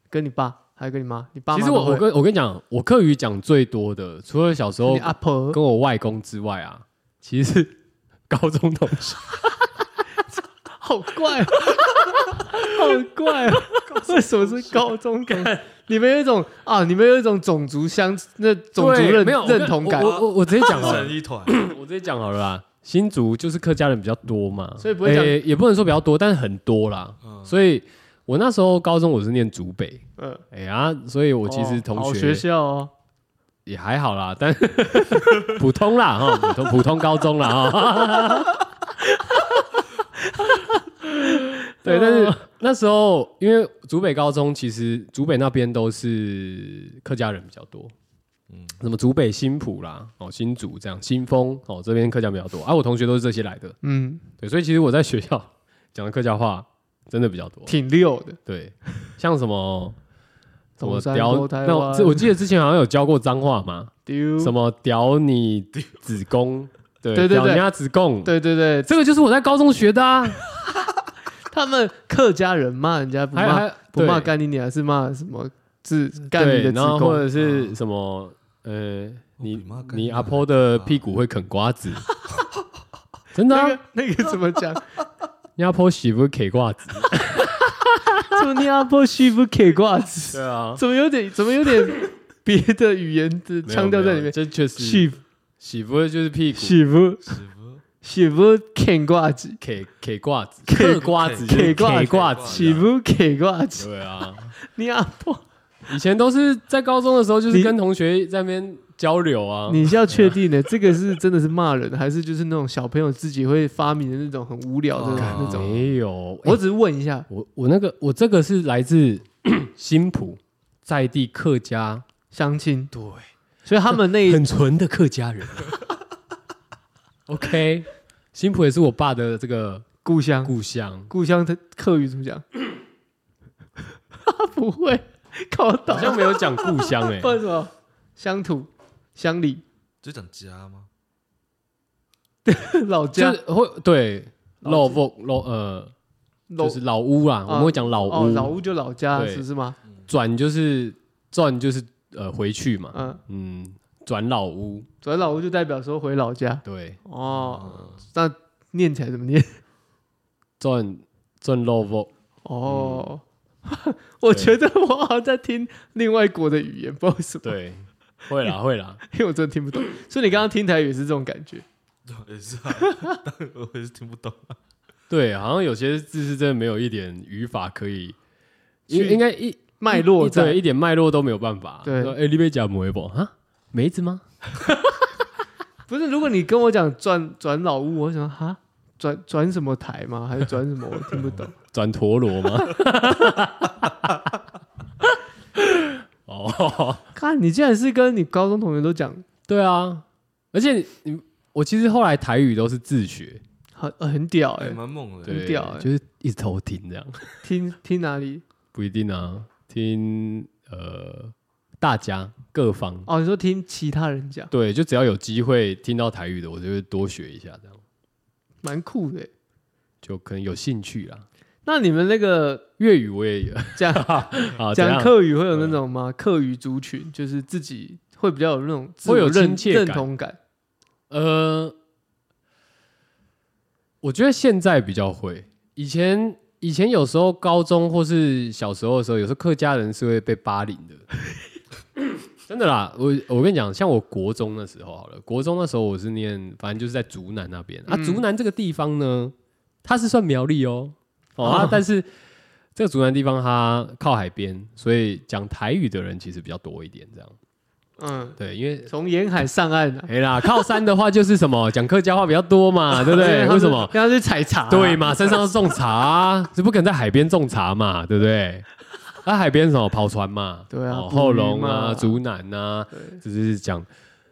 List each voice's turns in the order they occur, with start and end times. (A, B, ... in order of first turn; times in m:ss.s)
0:00.1-0:02.1 A
0:01.5-0:07.8 B
0:04.9-0:05.6 A
0:08.3-0:09.4 B
0:10.8-0:11.8 A
0:12.4-0:20.2 A
0:13.9-0:14.9 C
0:15.3-0:15.6 B
0:18.8-0:32.4 B
0:19.9-0:21.7 C
0:24.8-0:25.4 A
0:27.2-0:27.6 C
0:30.2-0:30.4 A
0:31.5-0:32.9 A
0:33.6-0:38.6 B
0:41.8-0:47.9 B
0:41.8-0:42.4 A
0:48.5-0:48.8 C
0:48.8-0:53.8 B
0:53.8-0:54.2 A
0:54.4-0:57.7 B
0:57.7-0:58.4 A
0:58.5-1:00.0 B
1:00.8-1:02.3 A
1:00.8-1:10.4 B
1:04.1-1:04.6 A
1:07.1-1:07.6 A
1:08.2-1:08.9 A
1:11.5-1:17.3 A
1:13.3-1:14.3 B
1:16.3-1:22.1 B
1:19.4-1:21.1 C
1:23.3-1:23.8 B
1:23.5-1:24.8 A
1:25.6-1:28.2 B
1:28.3-1:35.2 A
1:30.3-1:30.8 B
1:33.6-1:36.8 B
1:36.6-1:37.3 A
1:37.2-1:37.8 C
1:38.0-1:39.6 A
1:39.6-1:42.9 B
1:40.7-1:43.9 A
1:41.0-1:42.9 C
1:43.8-1:44.6 B
1:44.6-1:45.4 A
1:45.9-1:50.4 B
1:49.7-1:55.8 A
1:55.0-1:56.6 B
1:55.0-1:55.8 C
1:56.4-1:57.3 A
1:57.3-2:02.0 B
2:02.3-2:02.9 A
2:02.9-2:03.3 B
2:03.6-2:04.4 A
2:03.9-2:05.7 B
2:07.3-2:09.9 B
2:10.0-2:10.6 A
2:10.4-2:11.1 B
2:11.1-2:12.4 A
2:14.2-2:19.6 A
2:15.9-2:17.4 B
2:20.0-2:20.9 C
2:22.4-2:23.4 A
2:23.1-2:25.9 B
2:24.6-2:25.0 A
2:26.5-2:26.8 A
2:26.6-2:28.6 B
2:27.5-2:29.8 A
2:29.1-2:29.4 B
2:30.1-2:34.9 B
2:32.9-2:33.2 A
2:35.0-2:39.6 A
2:36.6-2:37.0 B
2:37.3-2:38.0 C
2:40.6-2:42.1 B
2:42.4-2:47.6 A
2:42.6-2:43.1 B
2:44.3-2:44.6 B
2:47.4-2:49.0 B
2:49.1-2:51.6 A
2:52.1-2:54.6 C
2:52.9-2:53.1 A
2:55.1-2:58.2 B
2:58.9-3:04.8 B
2:58.9-2:59.2 A
2:59.8-3:00.6 A
3:01.8-3:02.2 A
3:05.9-3:11.5 A
3:11.5-3:14.2 B
3:15.6-3:17.0 B
3:17.1-3:19.2 A
3:19.5-3:23.4 B
3:23.8-3:25.9 A
3:24.6-3:25.4 C
3:25.2-3:27.4 B
3:27.4-3:28.4 A
3:28.7-3:33.1 B
3:33.1-3:34.5 A
3:34.5-3:37.8 B
3:38.6-3:39.3 A
3:40.0-3:41.3 B
3:41.6-3:42.7 A
3:42.8-3:45.8 B
3:43.8-3:50.4 A
3:49.0-3:50.1 B
3:51.1-3:51.8 B
3:54.0-4:01.0 B
4:02.0-4:09.3 B
4:07.9-4:08.2 A
4:09.8-4:12.1 B
4:11.4-4:11.8 A
4:12.8-4:17.4 B
4:18.0-4:20.1 A
4:18.4-4:18.9 B
4:20.1-4:24.0 B
4:22.9-4:25.2 A
4:24.7-4:28.6 B
4:29.2-4:33.9 B
4:30.7-4:32.2 A
4:32.9-4:33.2 A